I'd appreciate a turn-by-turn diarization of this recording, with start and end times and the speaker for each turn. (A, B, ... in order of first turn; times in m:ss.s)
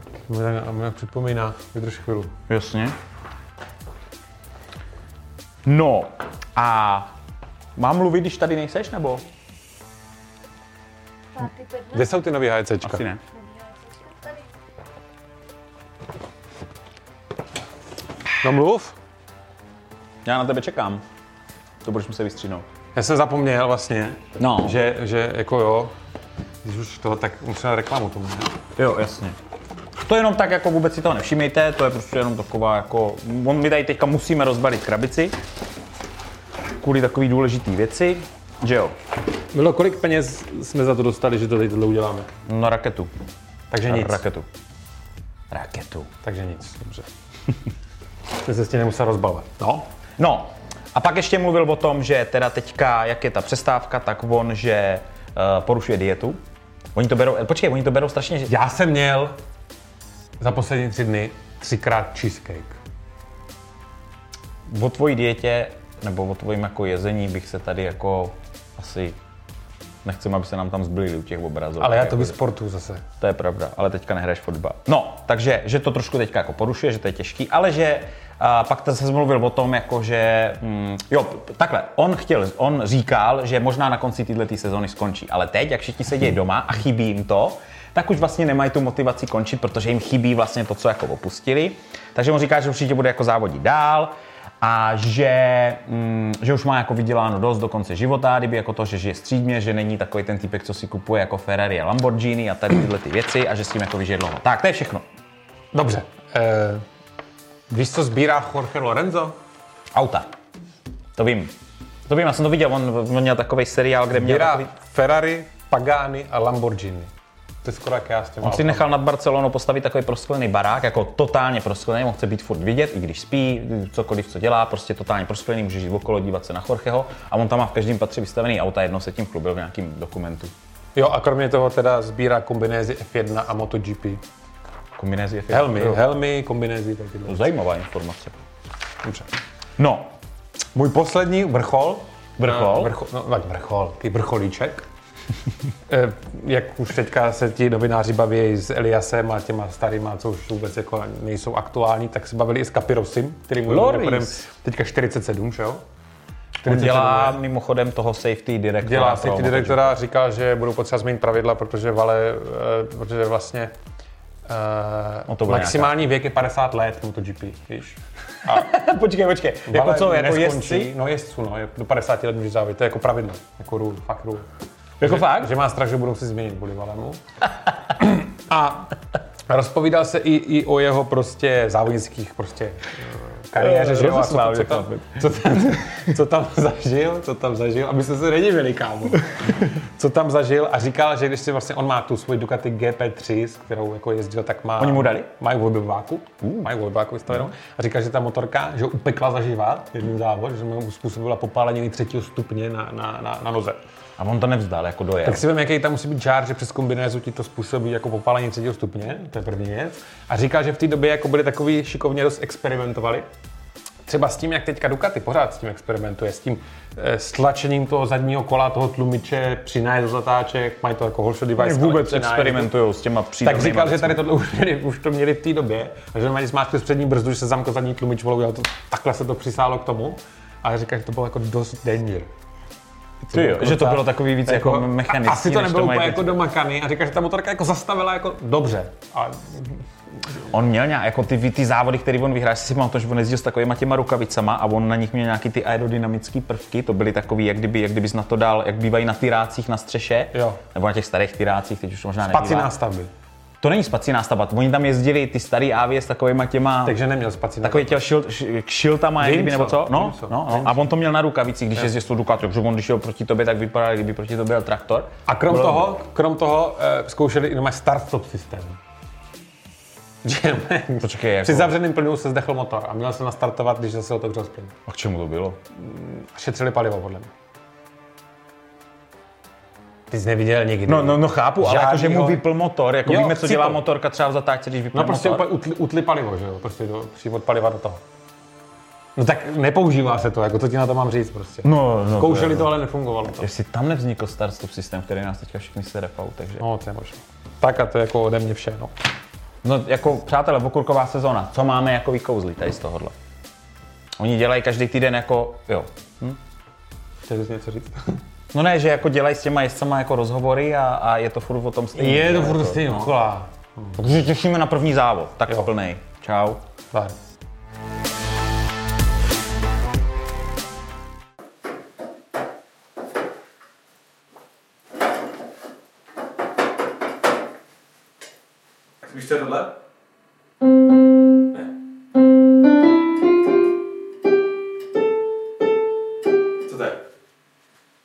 0:00.3-0:02.3 A
0:02.5-0:02.9 B
0:05.6-0:07.1 B
0:07.8-0:09.2 B
0:11.3-0:12.3 C
0:11.9-0:13.0 A
0:12.8-0:13.2 B
0:13.2-0:14.5 C
0:18.4-0:19.0 A
0:20.2-0:21.0 B
0:21.8-0:22.6 B
0:22.9-0:25.9 A
0:24.4-0:24.8 B
0:26.6-0:28.6 A
0:28.8-0:29.4 B
0:30.0-0:35.4 B
0:36.8-0:38.9 B
0:39.5-0:42.3 A
0:42.4-0:43.1 B
0:43.7-0:44.2 A
0:43.9-0:44.5 B
0:45.5-0:46.1 B
0:46.2-0:47.1 A
0:48.4-0:49.8 A
0:50.2-0:56.4 B
0:56.9-0:58.5 B
0:58.5-0:59.3 A
1:00.4-1:02.8 A
1:04.7-1:09.2 B
1:10.0-1:12.4 B
1:11.8-1:13.0 A
1:13.2-1:45.0 B
1:45.7-1:46.8 A
1:47.7-1:49.4 A
1:49.9-1:50.3 B
1:51.2-1:51.6 B
1:52.1-1:54.7 B
1:54.1-1:57.1 A
1:57.6-1:58.9 A
1:58.4-2:10.5 B
2:11.0-2:14.2 A
2:15.0-2:16.0 B
2:15.5-2:17.4 A
2:17.3-2:18.4 B
2:19.0-2:19.3 A
2:19.8-2:20.1 B
2:20.7-2:24.8 A
2:22.4-2:22.9 B
2:25.9-2:35.8 A
2:33.6-2:34.4 B
2:36.6-2:37.4 A
2:36.6-2:40.0 B
2:38.8-2:43.7 A
2:44.4-2:48.7 A
2:45.3-2:46.0 B
2:48.4-2:50.9 B
2:49.6-2:54.5 A
2:55.0-2:55.5 B
2:55.0-2:57.2 A
2:57.9-2:58.9 A
2:59.5-3:23.8 A
3:03.6-3:05.9 B
3:14.8-3:15.3 B
3:16.4-3:16.7 B
3:24.2-3:25.4 B
3:25.2-3:33.3 A
3:34.0-3:42.7 A
3:41.6-3:44.2 B
3:43.4-3:52.3 A
3:53.2-3:59.8 A
3:53.3-3:56.4 B
4:00.5-4:12.7 B
4:10.3-4:10.6 A
4:12.2-4:13.1 A
4:13.6-4:17.0 B
4:16.8-4:18.0 A
4:17.6-4:25.9 B
4:19.2-4:20.9 A
4:25.3-4:28.8 A
4:30.2-4:34.8 A
4:31.0-4:31.8 B
4:34.9-4:35.6 B
4:35.8-4:37.3 A
4:40.1-4:42.4 A
4:40.8-4:45.5 B
4:43.0-4:43.8 A
4:44.9-4:48.0 A
4:49.2-4:53.5 A
4:51.6-4:52.7 B
4:53.4-4:56.6 B
4:56.6-4:58.9 A
4:59.6-5:03.1 B
5:04.2-5:06.4 B
5:07.2-5:08.2 A
5:08.5-5:13.1 B
5:11.9-5:14.0 A
5:14.0-5:16.6 B
5:29.0-5:29.7 A
5:36.7-5:37.0 A